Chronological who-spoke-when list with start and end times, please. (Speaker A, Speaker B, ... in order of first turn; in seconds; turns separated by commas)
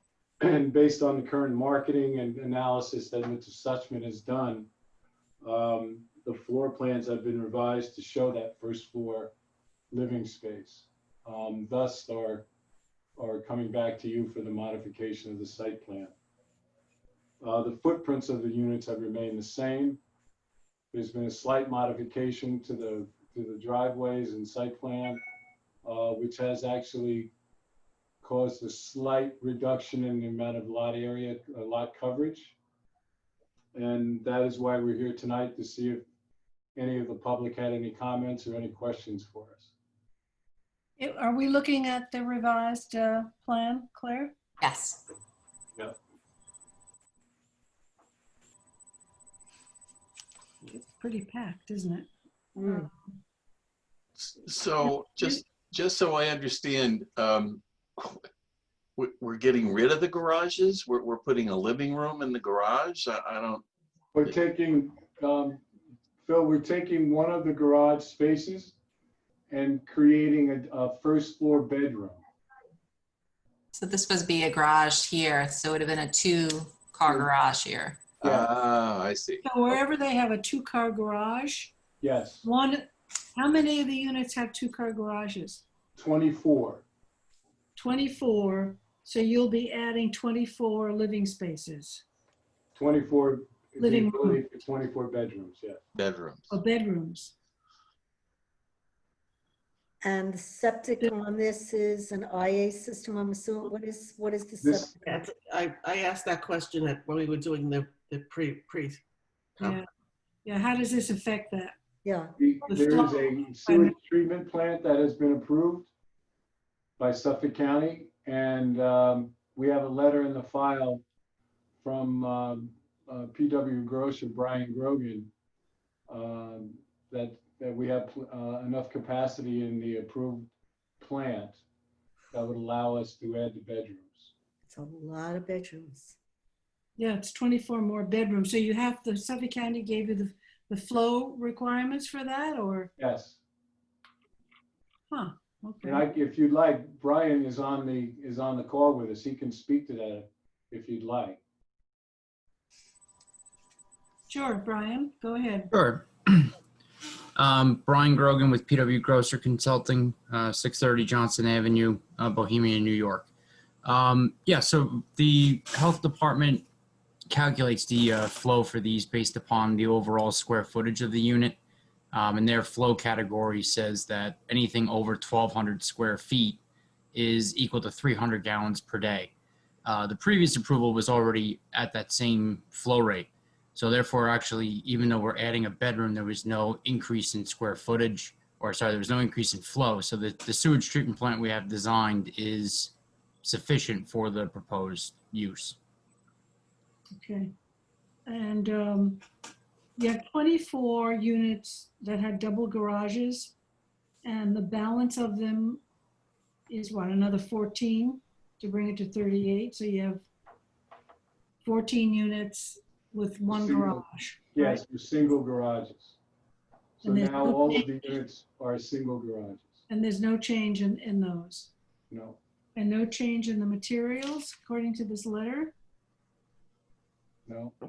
Speaker A: 0.4-4.7, Speaker A: 5.4-9.3, Speaker A: 9.9-12.5, Speaker A: 13.2-16.1, Speaker A: 17.4-20.0, Speaker A: 20.9-25.2, Speaker A: 25.8-27.3, Speaker A: 28.2-32.5, Speaker A: 33.7-36.0, Speaker A: 36.8-39.7, Speaker B: 41.0-44.3, Speaker C: 44.6-45.0, Speaker B: 50.6-52.1, Speaker D: 52.6-52.9, Speaker E: 54.2-58.2, Speaker E: 59.0-63.6, Speaker A: 64.2-65.6, Speaker A: 66.2-68.8, Speaker A: 69.5-72.2, Speaker C: 73.7-78.0, Speaker E: 78.2-79.8, Speaker A: 78.2-78.5, Speaker B: 79.4-81.7, Speaker A: 82.0-82.5, Speaker B: 82.4-85.6, Speaker A: 86.0-86.8, Speaker B: 87.8-92.0, Speaker A: 92.8-95.8, Speaker B: 93.8-94.4, Speaker E: 96.0-96.6, Speaker B: 96.5-97.3, Speaker D: 100.0-105.2, Speaker A: 104.6-104.9, Speaker F: 105.0-109.0, Speaker B: 110.5-111.8, Speaker D: 112.0-112.3, Speaker A: 112.4-115.9, Speaker B: 112.6-114.0, Speaker A: 117.0-121.0, Speaker A: 121.8-125.3, Speaker A: 126.1-131.6, Speaker A: 132.3-134.3, Speaker D: 134.7-136.2, Speaker B: 137.0-142.9, Speaker A: 143.0-143.4, Speaker B: 145.1-146.1, Speaker A: 145.8-151.4, Speaker B: 154.3-155.7, Speaker G: 155.7-156.5, Speaker G: 157.4-163.3, Speaker G: 163.8-166.7, Speaker G: 167.3-171.6, Speaker G: 172.1-176.6, Speaker G: 177.1-179.3, Speaker G: 179.8-195.8, Speaker B: 197.2-197.5, Speaker B: 198.2-199.2, Speaker B: 200.0-203.6, Speaker B: 204.2-205.8, Speaker B: 206.7-210.2, Speaker B: 211.6-214.8, Speaker A: 213.5-216.2, Speaker B: 217.0-218.1, Speaker A: 217.0-219.8, Speaker B: 219.9-221.7, Speaker A: 222.1-222.4, Speaker B: 222.8-225.7, Speaker A: 227.5-227.8